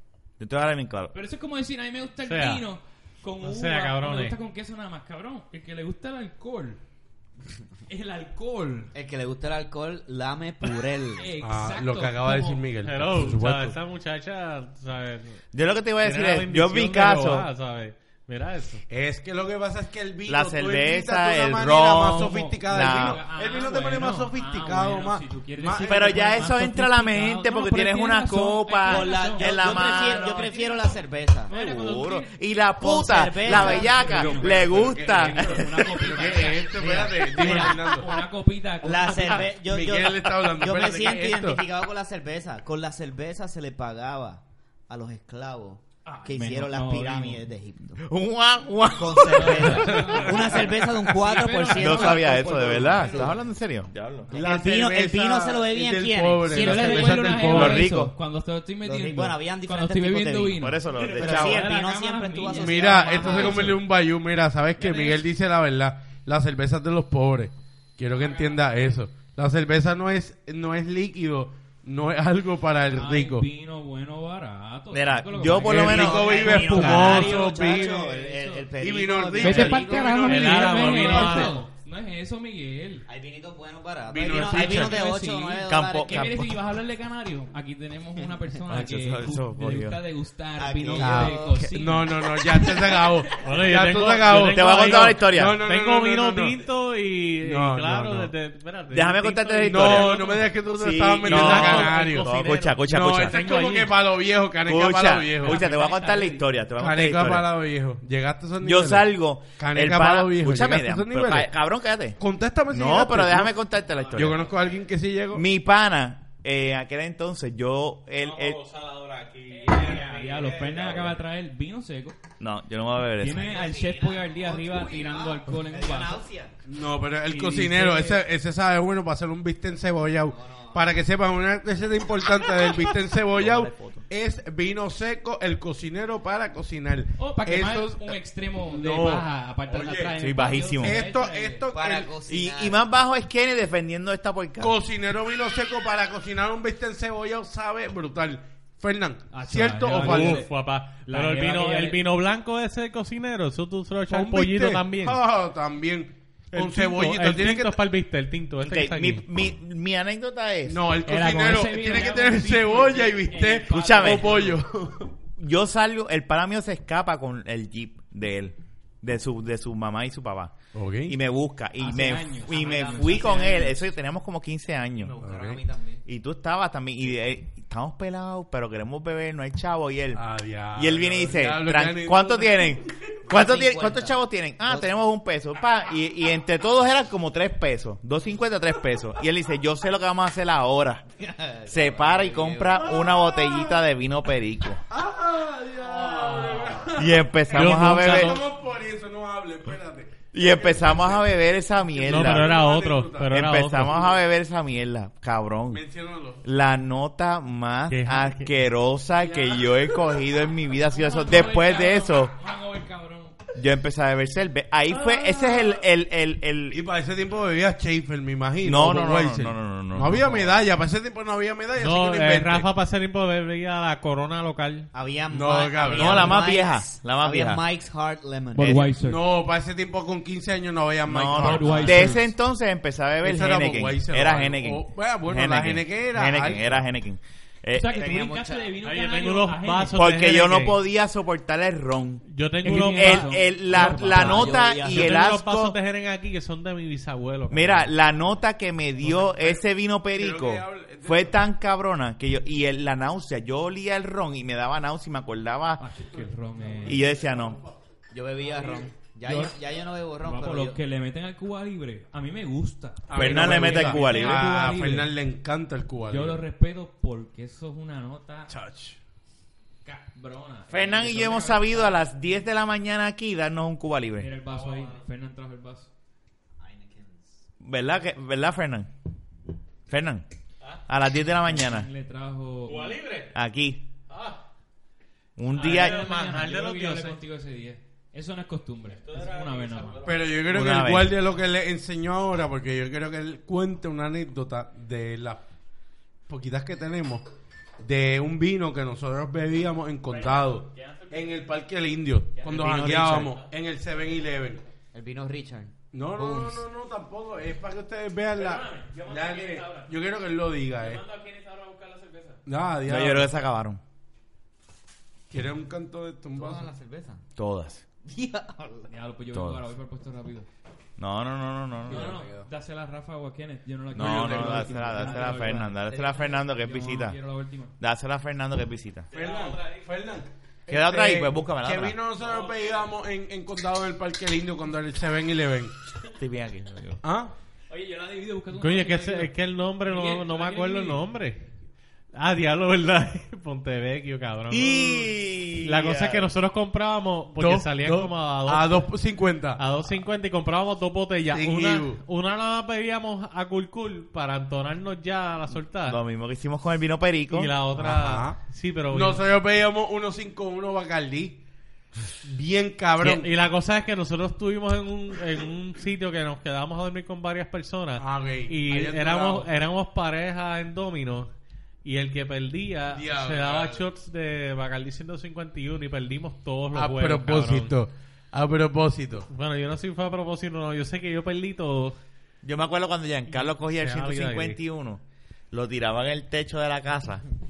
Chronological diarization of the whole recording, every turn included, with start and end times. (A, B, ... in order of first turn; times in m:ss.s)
0:00.4-0:01.1 A
0:01.1-0:06.8 B
0:02.2-0:02.6 C
0:03.4-0:04.4 C
0:07.9-0:08.9 B
0:08.9-0:11.3 D
0:11.2-0:12.6 B
0:11.4-0:13.8 E
0:12.8-0:15.4 C
0:15.5-0:17.5 A
0:16.0-0:18.8 C
0:18.9-0:26.3 E
0:20.2-0:23.2 A
0:22.0-0:32.3 B
0:25.8-0:30.5 A
0:28.8-0:31.5 D
0:31.5-0:36.0 A
0:32.8-0:34.4 D
0:33.4-0:39.5 B
0:33.8-0:38.1 E
0:36.8-0:37.7 D
0:37.0-0:37.7 A
0:38.8-0:48.0 D
0:39.6-0:41.6 E
0:46.0-0:47.4 B
0:48.0-0:49.9 A
0:48.9-0:53.4 D
0:49.3-0:53.4 B
0:49.8-0:50.5 E
0:51.7-0:54.3 A
0:52.6-0:53.2 E
0:54.3-0:57.6 D
0:54.3-0:57.9 E
0:56.5-1:03.8 B
0:57.4-0:58.1 A
0:58.8-1:03.8 D
1:00.6-1:01.6 A
1:01.0-1:01.5 C
1:02.6-1:13.5 E
1:04.8-1:05.2 B
1:08.1-1:08.9 B
1:12.9-1:18.7 B
1:14.9-1:17.4 A
1:15.6-1:18.1 E
1:15.8-1:21.5 D
1:18.8-1:21.6 E
1:19.4-1:23.0 B
1:20.2-1:21.6 C
1:23.1-1:26.4 D
1:24.1-1:25.0 E
1:24.2-1:33.0 B
1:25.6-1:26.5 A
1:28.7-1:30.0 A
1:30.6-1:31.8 D
1:31.0-1:36.6 E
1:33.4-1:40.5 C
1:34.5-1:35.6 A
1:37.4-1:38.3 E
1:38.9-1:43.4 A
1:39.6-1:42.3 E
1:41.2-1:44.0 C
1:42.8-1:45.6 E
1:44.6-1:47.5 A
1:45.4-1:46.5 B
1:46.8-1:51.5 E
1:48.6-1:52.2 A
1:52.2-1:53.6 E
1:52.7-1:54.4 A
1:54.1-1:55.4 E
1:55.3-1:58.6 A
1:58.2-2:01.1 C
1:59.5-2:02.2 B
2:02.4-2:03.6 A
2:03.2-2:06.2 B
2:03.3-2:06.6 D
2:06.6-2:18.1 E
2:07.2-2:08.2 B
2:10.2-2:10.9 D
2:13.3-2:14.0 A
2:17.2-2:21.7 B
2:18.6-2:20.2 E
2:20.2-2:21.0 A
2:20.7-2:22.1 E
2:21.7-2:22.8 D
2:22.3-2:24.8 A
2:24.6-2:30.4 E
2:29.3-2:30.5 B
2:29.8-2:35.2 C
2:31.0-2:32.0 B
2:34.1-2:37.8 E
2:36.5-2:39.2 C
2:38.6-2:40.8 A
2:40.6-2:45.1 E
2:41.0-2:44.6 B
2:43.7-2:44.5 A
2:45.4-2:50.5 A
2:50.7-2:51.2 E
2:51.0-2:55.1 A
2:51.8-2:53.8 B
2:52.8-2:53.1 D
2:55.0-2:56.0 D
2:55.2-2:55.6 E
2:56.0-3:11.0 A
3:00.1-3:02.8 E
3:03.3-3:04.9 D
3:11.2-3:13.0 D
3:11.7-3:14.8 A
3:13.0-3:13.6 E
3:14.9-3:21.3 E
3:16.0-3:16.8 D
3:16.9-3:18.4 A
3:17.5-3:18.4 C
3:20.3-3:22.6 A
3:21.8-3:24.1 E
3:22.1-3:24.0 C
3:23.3-3:25.8 A
3:25.7-3:26.4 E
3:26.4-3:32.3 A
3:27.9-3:28.5 C
3:29.2-3:29.7 E
3:30.9-3:33.4 B
3:33.5-3:36.8 A
3:35.0-3:35.7 E
3:36.7-3:42.7 E
3:38.6-3:40.6 A
3:41.8-3:44.9 C
3:44.9-3:48.8 D
3:45.3-3:46.4 E
3:45.9-3:47.6 A
3:48.5-3:49.2 B
3:49.0-3:52.3 E
3:51.1-3:58.2 A
3:51.3-3:52.2 B
3:53.2-3:56.8 E
3:57.7-4:00.0 B
3:57.9-3:58.8 D
3:58.8-4:00.8 C
3:59.9-4:05.8 A
4:02.3-4:07.9 C
4:02.6-4:04.7 B
4:03.7-4:05.1 D
4:07.5-4:15.8 A
4:09.0-4:09.6 E
4:10.1-4:11.4 E
4:15.8-4:17.0 B
4:16.8-4:17.6 A
4:18.1-4:20.8 D
4:19.2-4:19.6 B
4:20.2-4:25.1 B
4:23.1-4:26.4 E
4:23.1-4:24.5 A
4:26.1-4:28.5 B
4:28.5-4:29.0 E
4:29.8-4:32.0 B
4:30.7-4:34.3 A
4:34.2-4:35.9 B
4:34.5-4:35.0 C
4:36.6-4:37.4 D
4:37.6-4:38.9 A
4:39.9-4:40.2 A
4:40.9-4:41.9 A
4:41.4-4:43.0 B
4:42.6-4:43.3 C
4:43.3-4:43.8 A
4:44.1-4:44.4 C
4:45.4-4:46.0 A
4:45.5-4:50.1 B
4:45.5-4:47.2 C
4:49.0-4:50.3 C
4:50.0-4:55.4 E
4:50.4-4:51.2 A
4:56.3-4:57.2 E
4:57.8-5:04.6 E
5:00.1-5:01.4 B
5:02.4-5:02.8 B
5:02.4-5:03.3 C
5:04.9-5:06.6 D
5:05.9-5:11.0 E
5:08.3-5:09.9 B
5:10.8-5:12.4 B
5:12.4-5:13.3 E
5:12.8-5:13.8 A
5:15.3-5:16.7 E
5:16.3-5:17.2 D
5:17.4-5:17.8 A
5:18.0-5:18.9 D
5:18.9-5:20.5 B
5:19.3-5:19.6 A
5:21.0-5:22.2 A
5:21.8-5:27.7 B
5:21.9-5:22.5 D
5:23.9-5:27.2 A
5:24.0-5:24.9 E
5:24.9-5:25.6 D
5:27.8-5:29.1 A
5:29.1-5:35.7 E
5:29.1-5:29.6 C
5:30.7-5:32.0 A
5:36.1-5:37.0 A
5:37.0-5:37.3 E
5:37.7-5:41.0 B
5:38.6-5:41.5 C
5:42.1-5:49.0 C
5:44.5-5:46.3 A
5:47.4-5:49.6 E
5:49.6-5:56.0 C
5:51.3-5:52.0 E
5:55.8-5:57.5 A
5:57.3-5:59.2 C
5:57.7-5:58.4 E
5:58.9-6:01.4 E
6:02.2-6:03.3 E
6:03.0-6:11.3 C
6:08.0-6:09.5 E
6:11.8-6:17.7 C
6:12.9-6:13.8 E
6:16.7-6:19.3 E
6:19.3-6:22.0 C
6:22.4-6:27.2 A
6:23.4-6:24.6 C